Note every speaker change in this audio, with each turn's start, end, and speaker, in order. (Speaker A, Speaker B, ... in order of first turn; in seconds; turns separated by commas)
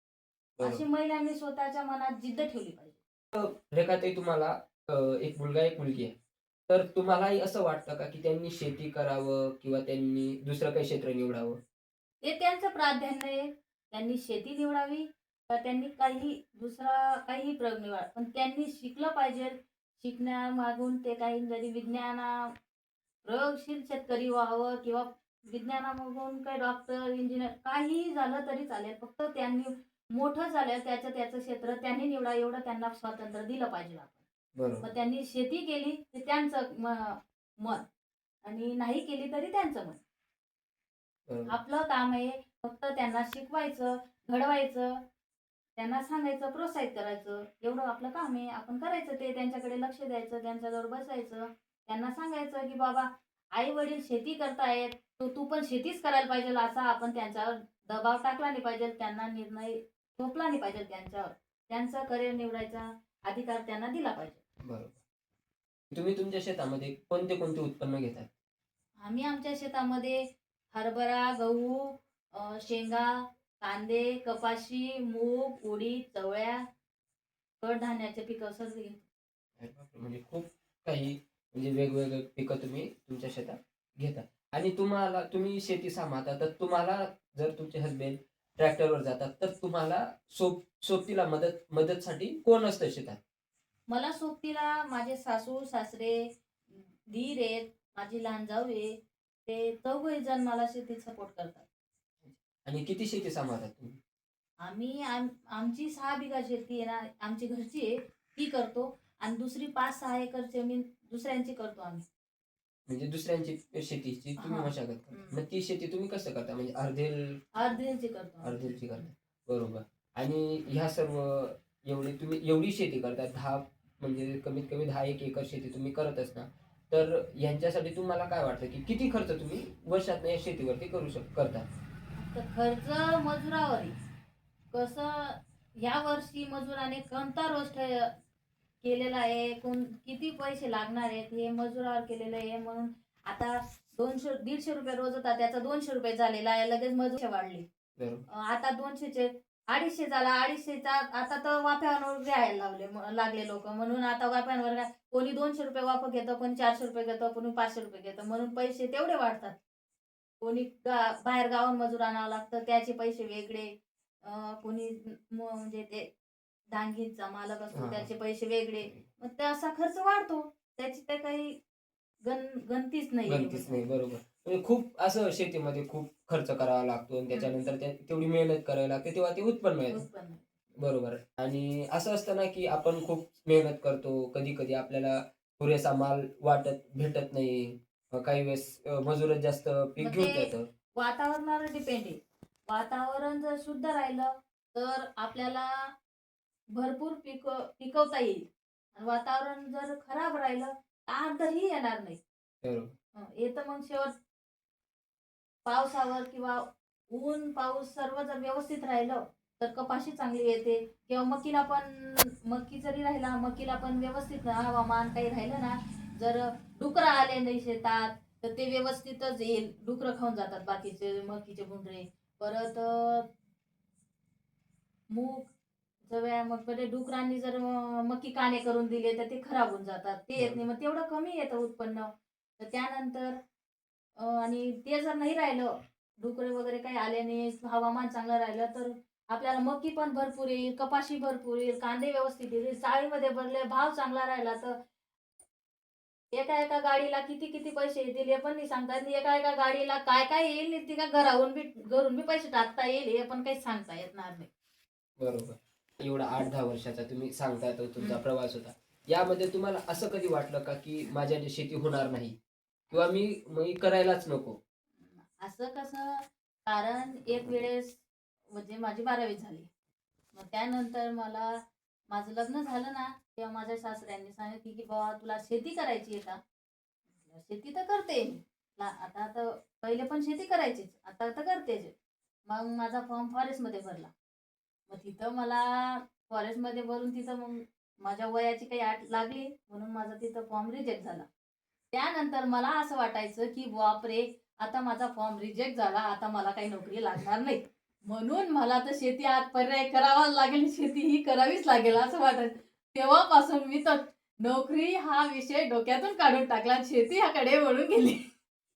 Speaker A: 0.6-0.8, Speaker B: 0.6-3.0, Speaker A: 3.3-6.1, Speaker A: 6.7-11.6, Speaker B: 12.2-22.5, Speaker B: 23.2-34.2, Speaker A: 34.5-34.9, Speaker B: 34.8-37.9, Speaker B: 38.4-40.0, Speaker A: 41.3-41.5, Speaker B: 41.5-45.0, Speaker B: 45.8-64.4, Speaker A: 64.6-65.0, Speaker A: 65.9-68.3, Speaker B: 69.0-76.6, Speaker B: 77.6-79.1, Speaker A: 79.6-93.2, Speaker B: 93.9-98.9, Speaker B: 99.5-101.7, Speaker A: 102.3-104.0, Speaker B: 104.6-112.0, Speaker A: 112.9-117.4, Speaker B: 114.4-115.4, Speaker B: 117.5-119.1, Speaker A: 118.4-131.7, Speaker B: 132.2-134.0, Speaker B: 134.7-138.1, Speaker B: 138.8-147.7, Speaker A: 148.0-148.2, Speaker B: 148.3-159.6, Speaker B: 160.4-166.1, Speaker B: 166.7-171.6, Speaker A: 167.7-168.1, Speaker B: 172.2-173.8, Speaker A: 173.3-180.0, Speaker B: 179.9-180.5, Speaker A: 180.8-190.7, Speaker B: 190.0-195.9, Speaker B: 196.7-202.2, Speaker A: 202.6-202.9, Speaker B: 203.2-204.1, Speaker B: 205.7-223.3, Speaker B: 225.1-225.5, Speaker B: 226.1-233.4, Speaker B: 234.2-244.8, Speaker B: 246.3-254.5, Speaker A: 255.2-262.4, Speaker A: 262.9-264.6, Speaker B: 265.0-269.7, Speaker B: 270.3-276.4, Speaker B: 277.2-281.9, Speaker B: 282.5-284.1, Speaker B: 284.9-291.3, Speaker B: 291.9-308.2